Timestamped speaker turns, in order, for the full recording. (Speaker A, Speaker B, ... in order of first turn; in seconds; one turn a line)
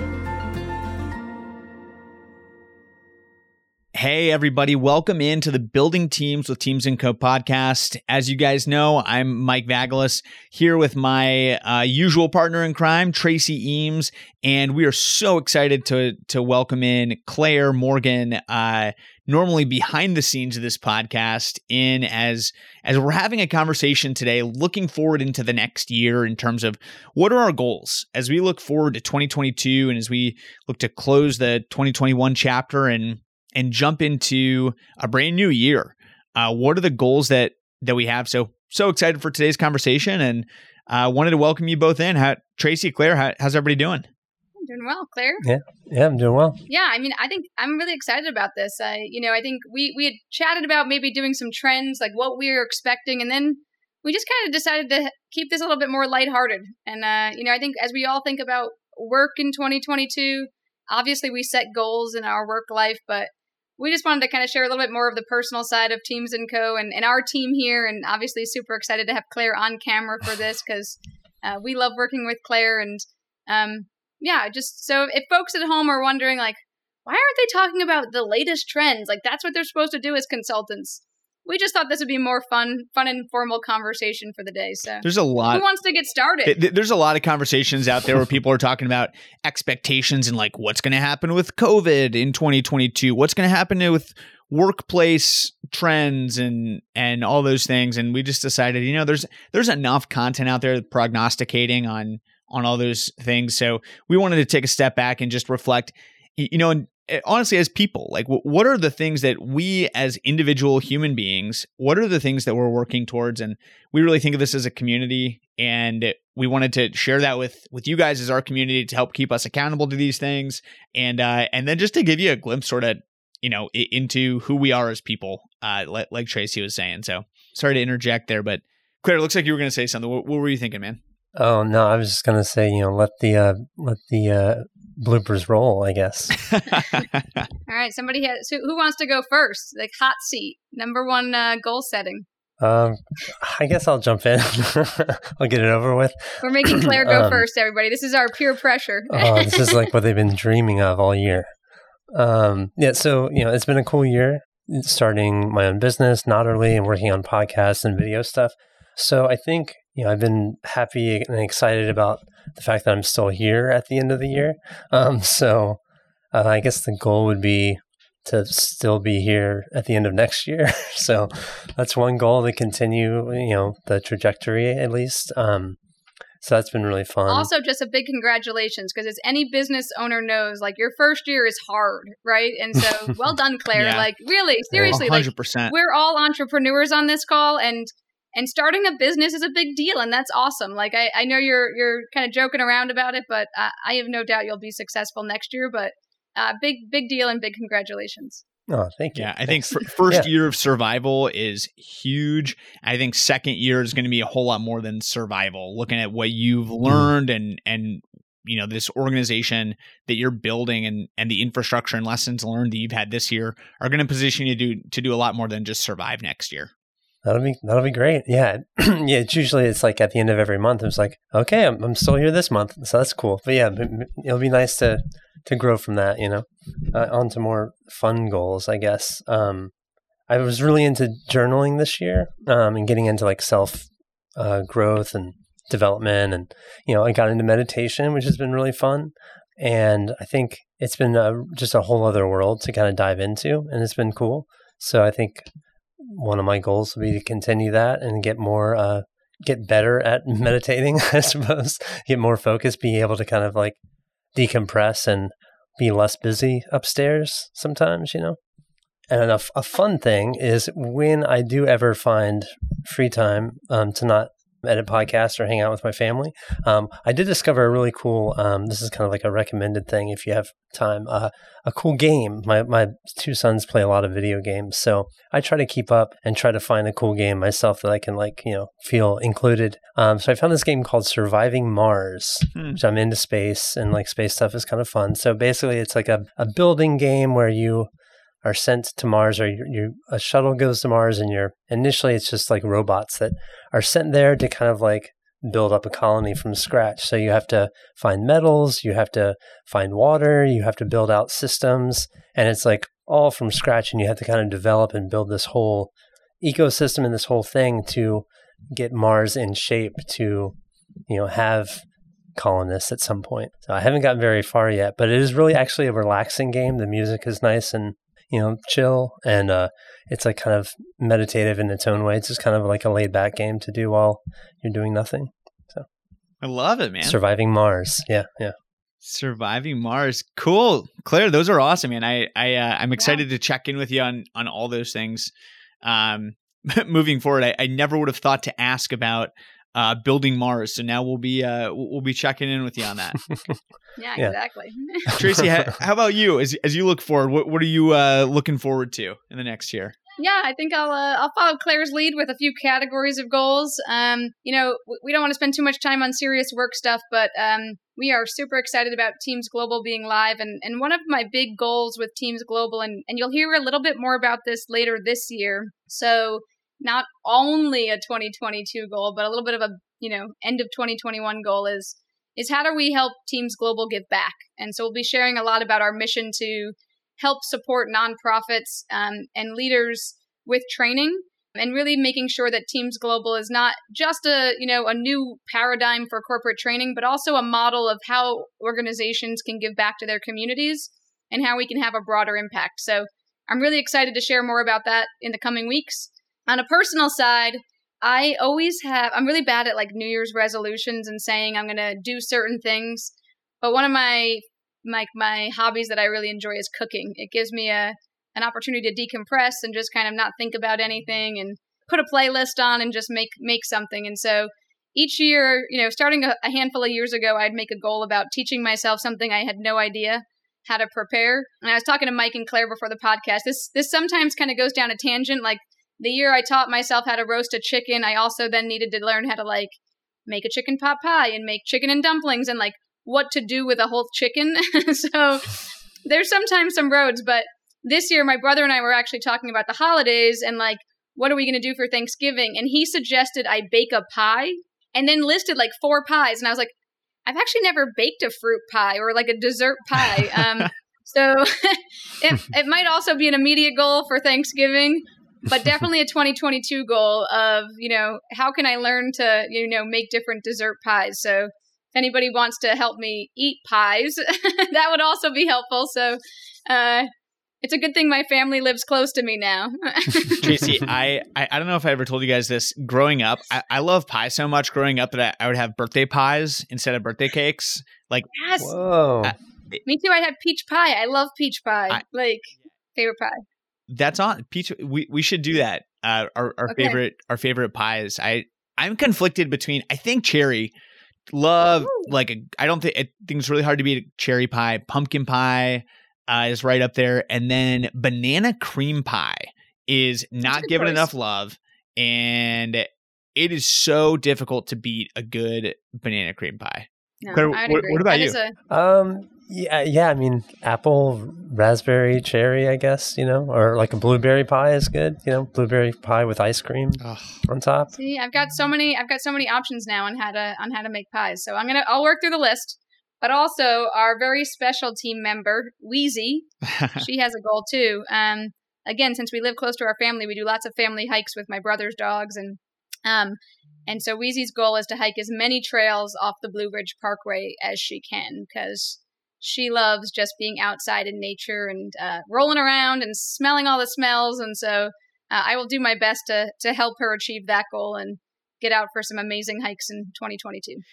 Speaker A: 3.9-44.1
Speaker B: 44.6-45.4
Speaker C: 45.4-46.6
Speaker B: 46.7-86.6
Speaker A: 85.0-85.6
Speaker A: 86.5-131.0
Speaker C: 131.4-136.3
Speaker A: 136.5-137.1
Speaker B: 137.7-142.2
Speaker C: 142.6-147.4
Speaker B: 146.4-149.8
Speaker C: 149.1-151.5
Speaker C: 152.1-165.8
Speaker C: 166.3-175.8
Speaker C: 176.4-177.5
Speaker B: 177.3-198.4
Speaker A: 183.7-184.1
Speaker C: 184.7-185.0
Speaker A: 184.8-185.7
Speaker C: 198.7-200.3
Speaker A: 199.2-216.7
Speaker C: 217.2-229.7
Speaker C: 230.3-245.5
Speaker C: 246.0-253.8
Speaker C: 254.3-258.4
Speaker C: 259.1-287.9
Speaker C: 288.4-310.5
Speaker C: 311.1-311.8
Speaker C: 312.4-325.9
Speaker A: 326.4-327.2
Speaker C: 327.0-328.5
Speaker A: 329.0-335.3
Speaker B: 333.0-333.2
Speaker A: 335.8-343.2
Speaker B: 344.0-345.1
Speaker C: 345.1-345.4
Speaker A: 345.2-349.9
Speaker B: 350.2-429.7
Speaker B: 430.3-446.7
Speaker B: 447.2-467.1
Speaker A: 450.4-450.6
Speaker B: 467.6-470.7
Speaker A: 470.4-478.3
Speaker B: 478.3-478.7
Speaker C: 478.6-479.3
Speaker A: 479.2-479.8
Speaker B: 479.9-483.4
Speaker A: 483.9-490.7
Speaker B: 486.7-487.0
Speaker A: 491.3-508.4
Speaker B: 491.7-492.1
Speaker B: 500.4-501.1
Speaker B: 507.2-508.6
Speaker C: 508.7-517.9
Speaker A: 517.0-517.4
Speaker B: 517.9-550.8
Speaker A: 526.8-527.0